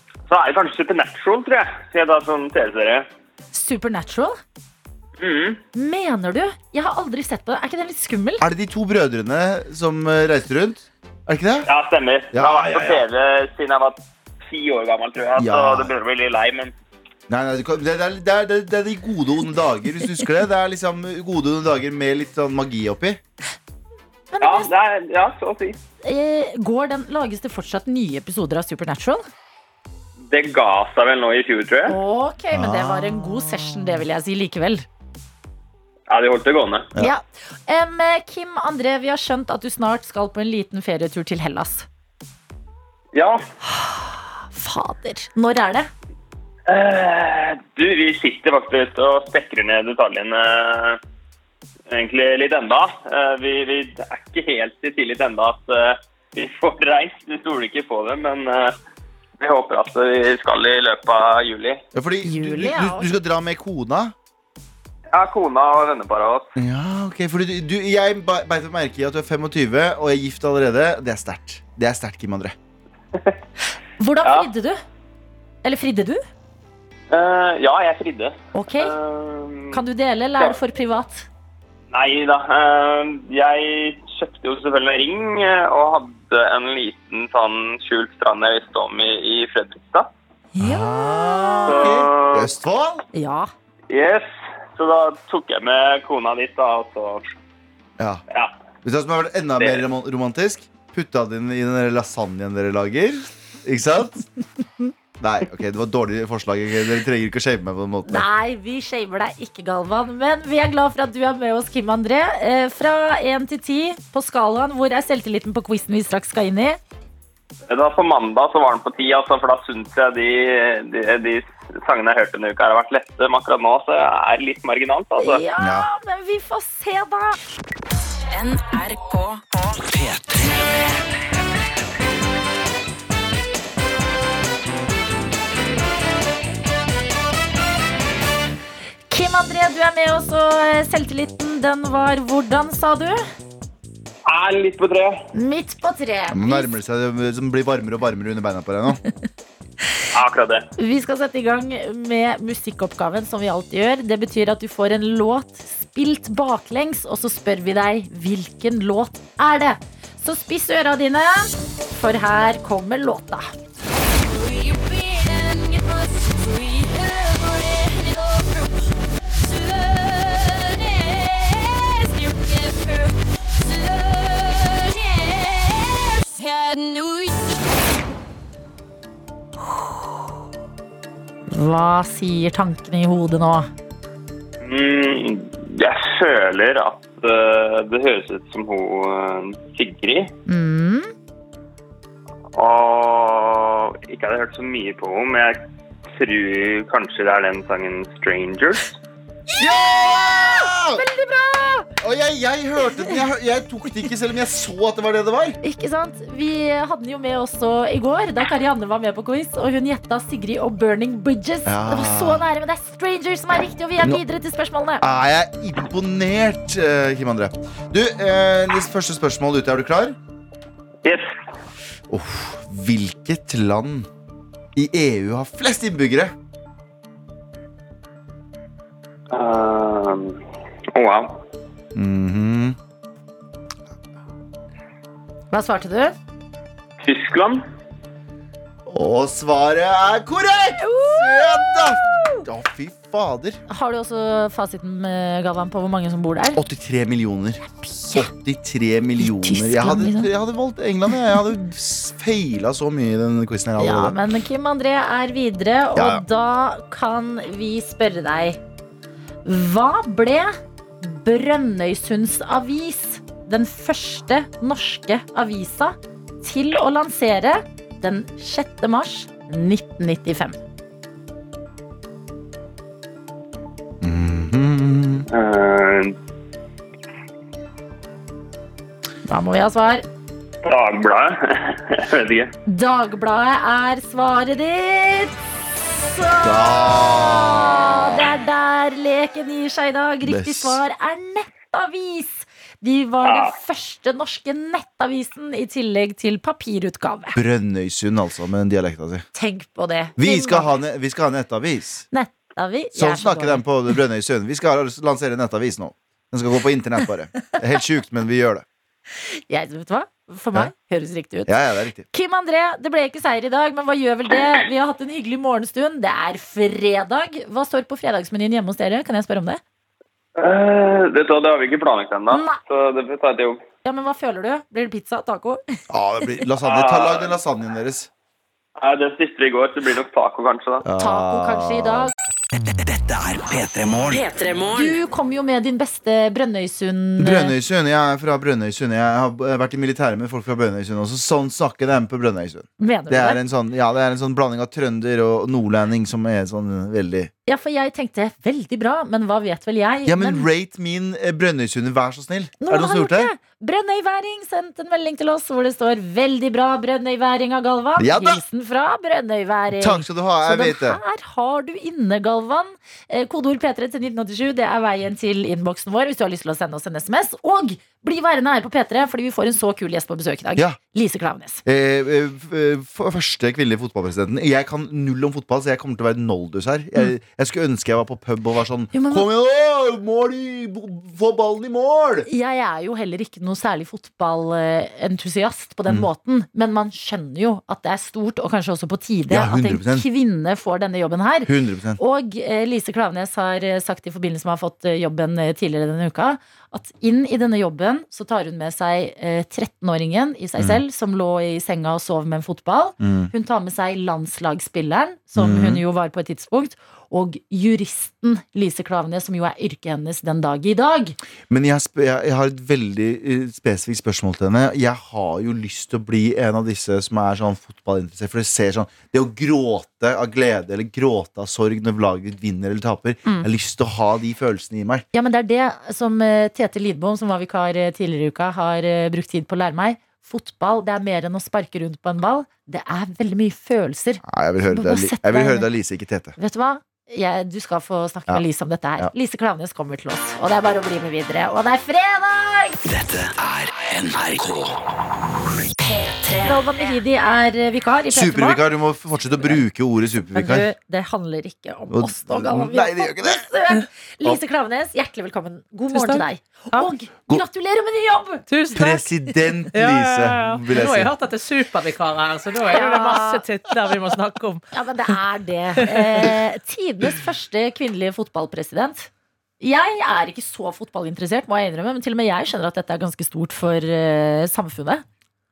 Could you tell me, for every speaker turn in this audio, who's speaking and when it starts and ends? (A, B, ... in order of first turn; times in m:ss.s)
0:00.3-0:03.1 A
0:03.5-0:04.4 B
0:05.2-0:05.6 A
0:05.8-0:08.5 B
0:08.4-0:11.7 C
0:11.7-0:16.7 A
0:12.3-0:13.0 C
0:15.4-0:15.9 C
0:17.3-0:23.2 C
0:24.3-0:24.7 B
0:24.4-0:25.8 A
0:26.0-0:29.2 B
0:30.3-0:32.0 A
0:31.9-0:34.8 B
0:32.5-0:33.0 C
0:36.1-0:36.9 A
0:37.0-0:41.9 B
0:43.2-0:43.4 A
0:43.7-0:45.9 B
0:46.7-0:51.0 A
0:51.9-0:58.8 A
0:59.4-1:01.8 A
1:01.9-1:04.1 C
1:02.2-1:03.1 B
1:05.1-1:06.5 A
1:06.6-1:12.6 C
1:14.0-1:14.8 B
1:14.2-1:14.5 A
1:15.6-1:16.2 B
1:17.1-1:19.8 A
1:18.5-1:19.0 B
1:19.7-1:21.3 B
1:21.9-1:30.1 A
1:30.5-1:31.9 B
1:30.6-1:33.0 C
1:31.7-1:32.5 A
1:33.1-1:33.5 B
1:33.9-1:37.3 A
1:38.8-1:44.2 C
1:39.6-1:39.8 A
1:45.2-1:48.3 C
1:48.1-1:56.8 B
1:57.7-2:05.4 A
2:05.2-2:07.4 B
2:05.6-2:05.9 C
2:08.3-2:09.5 D
2:09.8-2:10.7 E
2:19.1-2:23.2 B
2:24.3-2:25.2 A
2:25.3-2:26.7 B
2:26.3-2:29.0 C
2:30.2-2:30.7 A
2:30.8-2:43.6 B
2:44.3-2:47.2 D
2:47.9-2:48.5 D
2:52.2-2:53.0 D
2:53.9-2:55.6 D
2:56.4-2:57.4 D
3:01.5-3:03.7 B
3:04.6-3:10.3 A
3:10.5-3:11.1 B
3:12.6-3:15.6 A
3:16.1-3:19.0 A
3:19.6-3:21.0 C
3:20.2-3:21.9 B
3:22.0-3:25.6 C
3:25.6-3:35.0 B
3:31.7-3:32.4 C
3:35.0-3:40.2 C
3:41.0-3:41.3 A
3:42.1-3:44.1 C
3:44.8-3:46.3 C
3:49.3-3:50.4 A
3:51.0-3:51.4 A
3:52.0-3:52.8 C
3:55.5-3:56.2 B
3:57.0-3:57.6 A
3:58.9-4:03.6 C
4:00.8-4:02.4 B
4:03.7-4:06.6 B
4:06.6-4:14.2 C
4:07.8-4:08.3 B
4:09.2-4:10.3 B
4:13.8-4:18.6 B
4:16.0-4:16.2 C
4:19.4-4:30.6 B
4:34.0-4:35.3 C
4:35.3-4:36.2 A
4:39.3-4:40.0 B
4:40.7-4:42.5 A
4:42.7-4:45.4 B
4:45.9-4:57.4 B
4:46.4-4:48.2 C
4:50.2-4:50.8 C
4:53.2-4:53.5 A
4:57.4-4:59.3 C
4:59.3-5:00.7 B
5:00.2-5:02.1 C
5:02.1-5:03.6 B
5:03.0-5:08.6 C
5:09.4-5:11.6 B
5:11.5-5:12.1 C
5:12.1-5:19.6 B
5:20.4-5:23.6 A
5:22.3-5:22.6 B
5:23.8-5:25.6 B
5:25.9-5:28.1 C
5:26.6-5:27.4 A
5:28.8-5:30.9 A
5:30.8-5:32.1 C
5:31.0-5:32.1 B
5:32.7-5:34.4 E
5:34.1-5:35.0 D
5:34.7-5:37.5 B
5:37.2-5:47.3 C
5:42.8-5:43.4 B
5:47.5-5:50.5 B
5:50.0-5:53.3 C
5:52.6-6:11.6 B
5:58.0-5:58.4 C
5:59.7-6:01.0 C
6:11.7-6:22.3 C
6:18.9-6:19.3 B
6:22.3-6:51.2 B
6:29.3-6:30.0 C
6:31.5-6:32.0 C
6:43.0-6:43.3 C
6:45.4-6:45.8 C
6:51.5-7:05.0 C
7:05.1-7:15.7 B
7:14.2-7:16.3 C
7:16.4-7:22.8 B
7:22.9-7:24.8 E
7:26.4-7:28.6 B
7:28.1-7:30.7 C
7:30.4-7:39.0 B
7:31.9-7:33.5 C
7:35.9-7:36.9 F
7:38.5-7:39.0 F
7:38.8-7:41.1 C
7:39.7-7:44.6 F
7:42.6-7:43.4 B
7:44.7-7:49.1 B
7:45.8-7:46.3 F
7:49.6-7:55.0 B